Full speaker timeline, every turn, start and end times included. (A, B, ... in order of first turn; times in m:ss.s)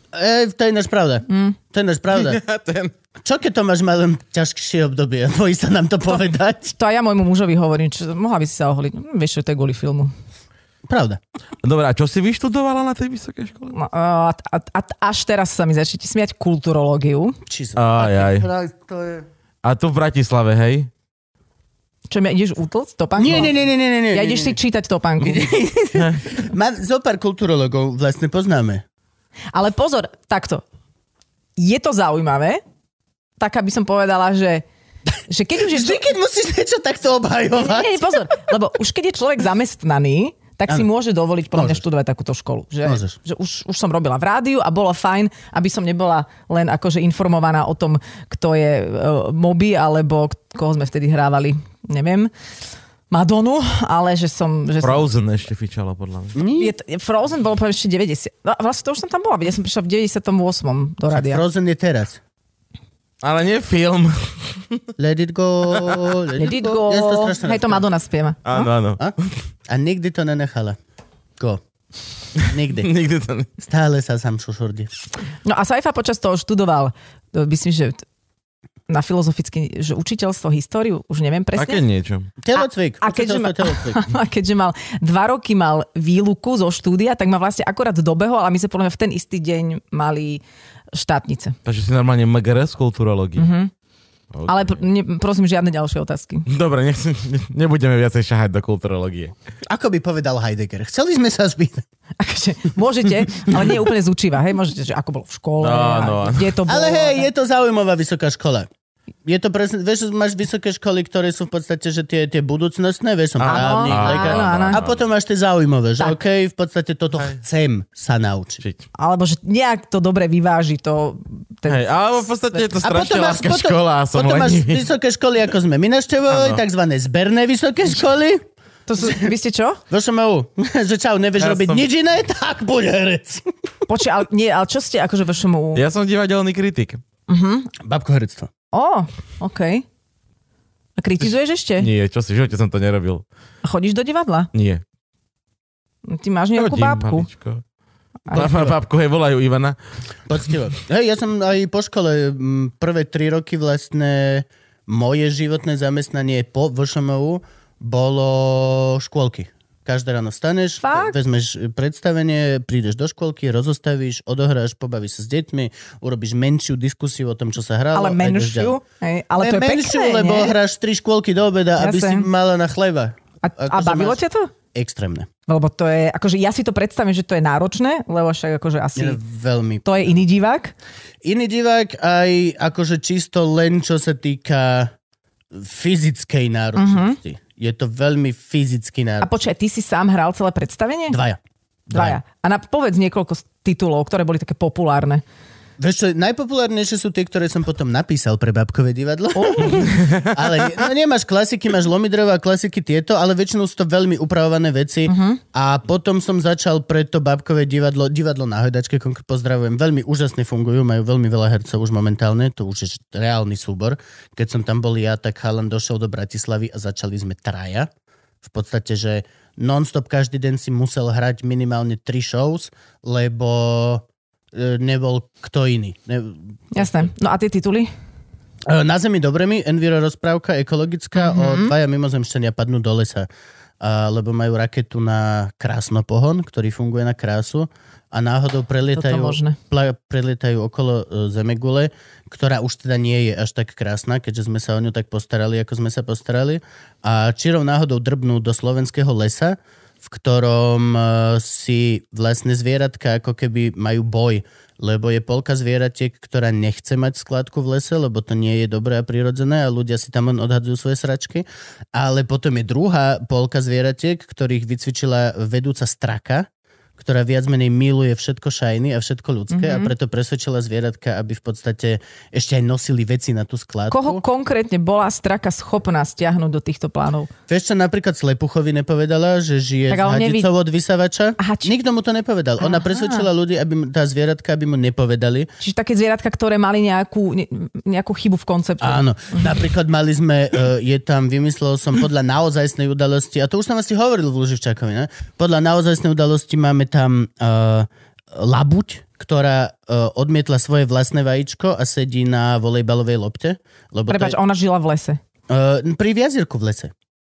0:00.1-0:02.4 A
0:01.3-0:01.6 B
0:02.1-0:02.9 C
0:03.2-0:06.8 A
0:06.8-0:10.1 B
0:10.9-0:11.2 A
0:11.6-0:13.8 C
0:13.7-0:17.4 B
0:17.5-0:19.2 A
0:17.8-0:18.5 C
0:19.6-0:20.9 C
0:22.1-0:23.6 B
0:23.2-0:24.6 A
0:24.1-0:25.6 B
0:25.2-0:28.8 A
0:29.5-0:30.6 B
0:31.6-0:32.6 B
0:33.4-0:34.6 B
0:35.3-0:36.1 B
0:35.7-0:38.1 A
0:37.6-0:52.3 B
0:41.5-0:41.8 A
0:42.8-0:43.2 A
0:53.1-0:55.1 B
0:54.8-0:56.4 C
0:56.4-0:56.7 A
0:56.6-1:01.4 B
1:01.1-1:02.2 A
1:03.2-1:04.8 C
1:05.0-1:07.8 A
1:05.7-1:06.1 C
1:06.4-1:08.7 B
1:08.5-1:09.4 C
1:09.7-1:10.8 A
1:12.4-1:13.5 C
1:12.4-1:12.9 A
1:13.6-1:14.9 A
1:15.4-1:18.0 B
1:18.9-1:21.8 B
1:21.6-1:22.3 C
1:22.4-1:24.0 A
1:22.5-1:30.4 B
1:30.9-1:31.6 B
1:31.7-1:33.5 C
1:33.4-1:33.7 B
1:34.3-1:34.8 C
1:34.5-1:36.5 B
1:36.5-1:39.3 C
1:39.7-1:41.8 A
1:42.2-1:47.3 B
1:45.6-1:46.6 C
1:46.7-1:48.7 A
1:49.3-1:58.6 A
1:53.4-1:55.0 C
1:53.5-1:54.8 B
1:59.0-2:01.8 B
2:01.7-2:04.8 C
2:02.8-2:08.4 A
2:06.3-2:06.6 C
2:08.9-2:09.8 B
2:09.9-2:13.4 A
2:11.4-2:11.8 C
2:13.9-2:15.8 B
2:15.8-2:17.0 C
2:17.3-2:17.7 B
2:17.8-2:18.5 A
2:18.7-2:19.8 B
2:21.0-2:21.9 B
2:21.2-2:23.2 C
2:23.6-2:24.5 B
2:24.5-2:24.8 C
2:26.1-2:27.3 B
2:26.6-2:27.6 C
2:28.3-2:28.7 B
2:28.3-2:29.8 C
2:30.3-2:48.8 A
2:40.8-2:41.2 B
2:47.9-2:50.6 B
2:49.4-2:54.2 A
2:51.8-2:52.3 B
2:53.4-2:54.5 B
2:54.7-2:55.3 A
2:55.5-2:59.2 B
2:59.0-3:00.2 A
2:59.8-3:00.7 B
3:01.2-3:04.9 A
3:05.5-3:09.3 A
3:06.8-3:07.2 B
3:09.2-3:11.2 B
3:11.1-3:11.4 A
3:11.9-3:12.2 A
3:11.9-3:15.2 B
3:15.8-3:37.9 A
3:19.4-3:19.9 B
3:20.0-3:20.4 C
3:25.1-3:25.4 B
3:38.4-3:46.9 A
3:46.7-3:47.9 B
3:48.7-3:53.3 A
3:51.2-3:51.7 B
3:53.8-4:34.2 A
3:59.0-3:59.6 B
4:29.5-4:29.9 B
4:33.9-4:37.3 B
4:37.5-4:45.5 A
4:39.9-4:40.5 B
4:41.4-4:41.7 B
4:42.6-4:43.3 B
4:45.6-4:49.5 B
4:48.8-5:04.4 A
5:04.1-5:05.2 B
5:05.5-5:06.9 A